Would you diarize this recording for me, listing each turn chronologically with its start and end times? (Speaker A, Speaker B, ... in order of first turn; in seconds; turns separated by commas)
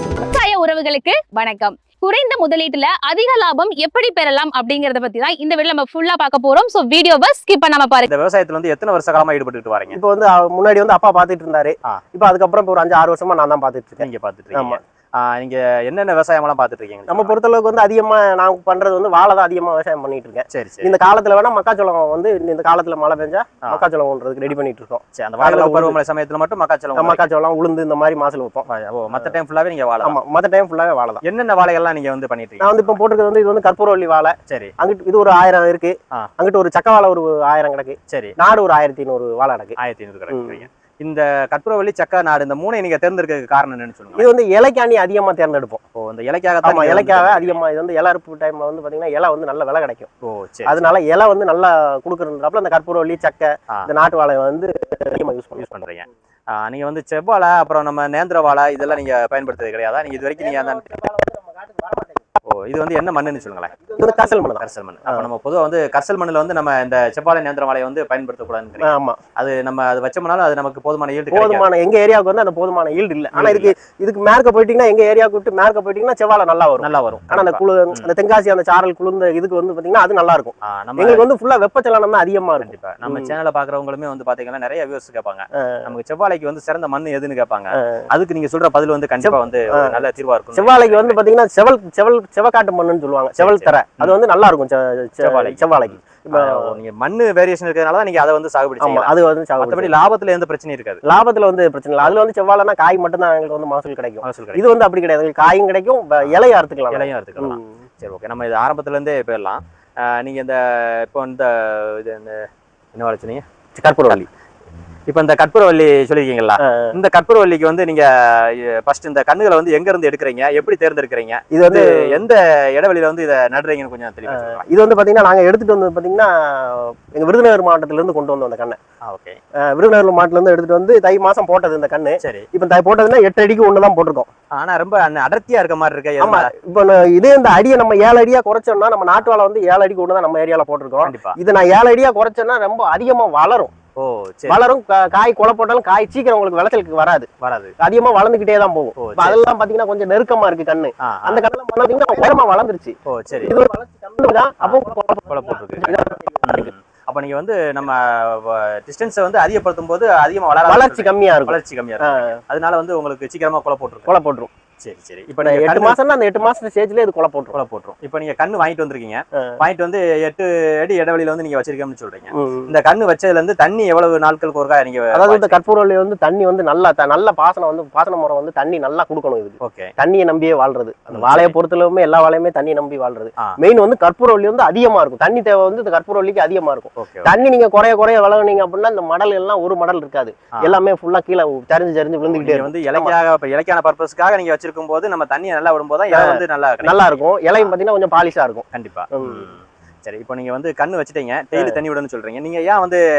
Speaker A: 0.2-8.1, Speaker B: 8.1-10.0, Speaker C: 9.9-14.8, Speaker B: 14.0-17.4, Speaker C: 17.1-26.0, Speaker B: 20.5-20.9, Speaker B: 25.1-27.2, Speaker C: 27.0-29.3, Speaker B: 28.7-30.2, Speaker C: 30.0-31.2, Speaker B: 31.2-33.0, Speaker C: 32.6-39.8, Speaker B: 34.5-34.7, Speaker B: 38.1-38.4, Speaker B: 39.8-44.3, Speaker C: 40.3-40.7, Speaker C: 44.1-45.8, Speaker B: 46.0-47.6, Speaker C: 46.6-50.1, Speaker B: 50.2-50.9, Speaker C: 50.7-55.7, Speaker B: 55.6-60.9, Speaker C: 60.1-62.3, Speaker B: 62.5-71.7, Speaker C: 63.8-65.3, Speaker C: 68.8-69.2, Speaker C: 71.3-83.3, Speaker B: 73.3-73.7, Speaker B: 76.8-78.1, Speaker B: 80.7-81.2, Speaker B: 82.6-91.2, Speaker C: 85.6-85.9, Speaker C: 87.8-88.0, Speaker C: 89.2-90.0, Speaker C: 90.5-96.8, Speaker B: 93.4-94.2, Speaker B: 95.2-101.0, Speaker C: 98.8-99.9, Speaker C: 101.0-107.8, Speaker B: 104.2-104.6, Speaker B: 106.2-113.4, Speaker C: 113.8-114.2, Speaker B: 115.1-124.7, Speaker C: 116.6-116.9, Speaker C: 121.5-122.2, Speaker C: 124.3-128.8, Speaker B: 129.1-129.4, Speaker C: 129.6-134.3, Speaker B: 134.5-136.5, Speaker C: 136.2-143.7, Speaker B: 141.1-141.4, Speaker B: 144.0-144.6, Speaker C: 144.5-147.3, Speaker B: 147.4-147.7, Speaker C: 147.8-156.7, Speaker B: 149.0-149.4, Speaker B: 151.0-151.5, Speaker B: 153.1-153.6, Speaker B: 154.6-164.1, Speaker C: 160.7-162.4, Speaker C: 164.1-164.5, Speaker B: 164.8-166.0, Speaker C: 165.4-167.6, Speaker B: 167.5-175.6, Speaker C: 172.3-172.7, Speaker C: 175.1-193.2, Speaker B: 179.6-179.9, Speaker B: 181.1-181.6, Speaker B: 187.0-187.3, Speaker B: 192.3-197.7, Speaker C: 196.1-199.5, Speaker B: 198.7-203.0